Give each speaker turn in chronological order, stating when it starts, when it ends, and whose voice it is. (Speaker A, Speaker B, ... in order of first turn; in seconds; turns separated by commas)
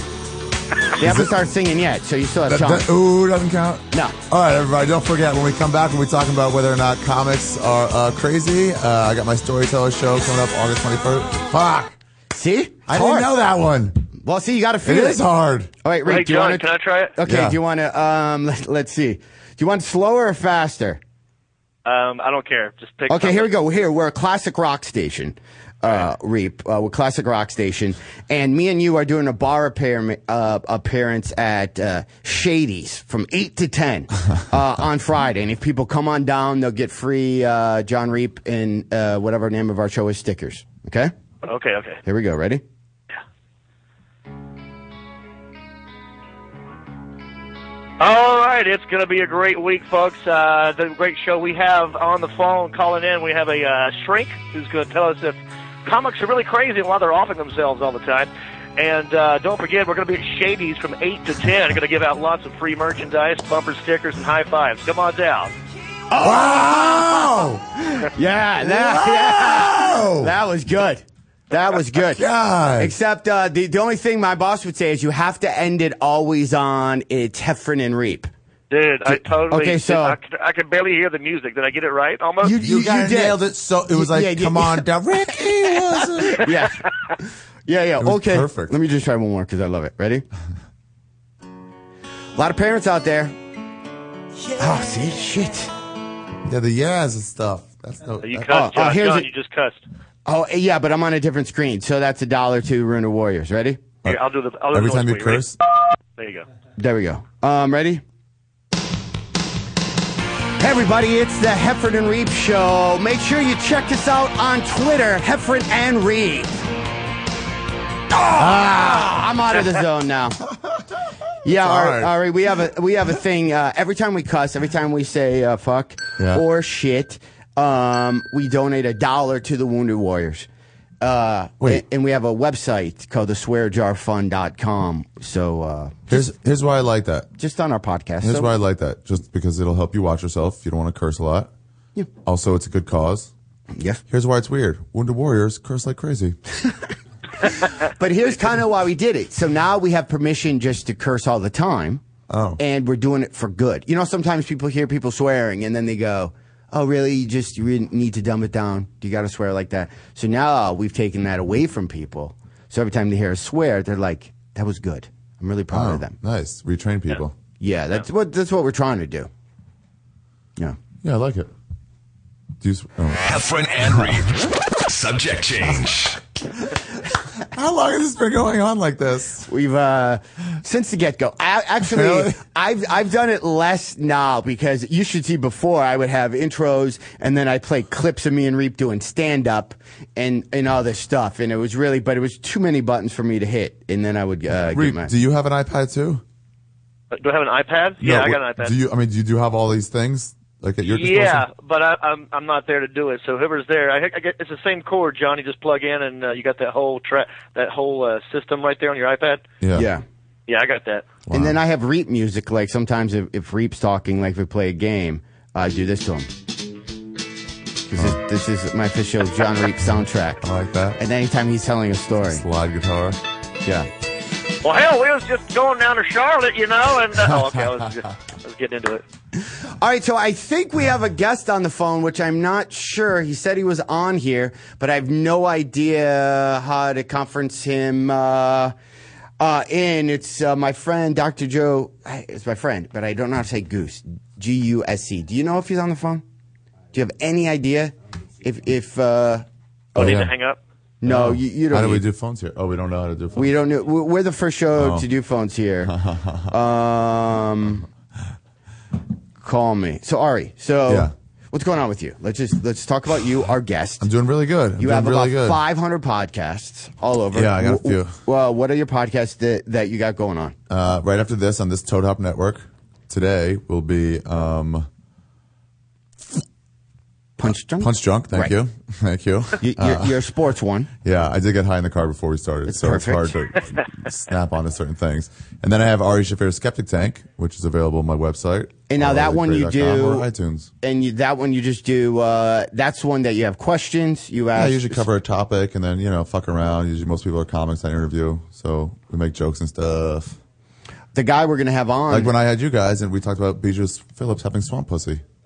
Speaker A: 1.0-2.9, Speaker B: 1.0-1.3, Speaker B: 2.5-12.0, Speaker A: 12.3-13.3, Speaker B: 12.9-14.1, Speaker A: 14.2-15.2, Speaker B: 14.8-15.7, Speaker A: 15.8-21.0, Speaker C: 16.0-17.1, Speaker B: 17.2-17.6, Speaker C: 21.8-23.5, Speaker A: 23.1-41.1, Speaker C: 41.4-42.0, Speaker A: 42.0-42.6, Speaker C: 48.0-65.5, Speaker A: 66.1-72.2, Speaker B: 66.2-67.7, Speaker B: 68.6-70.3, Speaker B: 72.1-72.9, Speaker A: 72.8-78.3, Speaker C: 78.7-82.5, Speaker A: 79.1-80.2, Speaker A: 82.4-83.4, Speaker B: 82.5-86.5, Speaker A: 83.9-90.2, Speaker B: 88.0-88.8, Speaker A: 92.3-93.3, Speaker A: 94.5-95.7, Speaker B: 96.4-98.5, Speaker C: 98.2-99.8, Speaker A: 98.5-99.3, Speaker A: 100.2-103.8, Speaker B: 104.0-105.6, Speaker C: 104.0-105.5, Speaker C: 106.2-106.5, Speaker A: 106.8-108.0, Speaker A: 110.6-116.5, Speaker A: 118.1-120.4, Speaker B: 118.3-119.3, Speaker A: 121.4-130.5, Speaker B: 121.5-122.2, Speaker B: 126.2-126.4, Speaker A: 131.0-136.3, Speaker B: 136.1-137.3, Speaker A: 137.4-138.5, Speaker B: 138.2-141.5, Speaker B: 142.2-143.3, Speaker A: 143.7-144.0, Speaker B: 144.1-146.4, Speaker A: 147.4-152.0, Speaker B: 152.3-152.6, Speaker A: 152.6-166.1, Speaker B: 165.7-167.3, Speaker A: 167.6-169.3, Speaker B: 171.0-171.5, Speaker B: 172.6-174.2, Speaker D: 173.2-176.2, Speaker B: 177.4-179.5, Speaker A: 179.5-195.1, Speaker B: 181.8-182.4, Speaker B: 194.7-196.2, Speaker C: 197.1-198.7, Speaker B: 198.0-201.5, Speaker C: 200.8-209.4, Speaker B: 209.6-209.9, Speaker A: 209.7-210.0, Speaker C: 210.5-211.1, Speaker B: 211.3-211.6, Speaker A: 211.3-216.3, Speaker A: 217.9-220.4, Speaker B: 217.9-218.2, Speaker B: 220.4-221.0, Speaker A: 221.0-222.4, Speaker B: 222.2-223.2, Speaker C: 224.6-229.0, Speaker B: 227.2-227.8, Speaker A: 229.8-238.7, Speaker A: 239.4-246.2, Speaker A: 246.9-249.4, Speaker C: 249.9-250.6, Speaker B: 249.9-250.3, Speaker A: 251.0-252.0, Speaker B: 251.0-253.5, Speaker A: 253.3-255.9, Speaker B: 254.7-255.1, Speaker B: 255.8-256.5, Speaker A: 256.5-257.9, Speaker A: 259.4-264.1, Speaker B: 260.9-261.1, Speaker B: 264.0-265.6, Speaker A: 264.8-270.6, Speaker B: 267.3-268.2, Speaker B: 270.7-274.9, Speaker A: 277.4-278.5, Speaker B: 277.8-280.1, Speaker A: 279.6-280.9, Speaker B: 281.0-290.7, Speaker A: 282.7-283.4, Speaker A: 288.9-290.3, Speaker A: 290.8-295.0, Speaker B: 294.5-300.4, Speaker A: 301.1-302.3, Speaker B: 302.1-305.2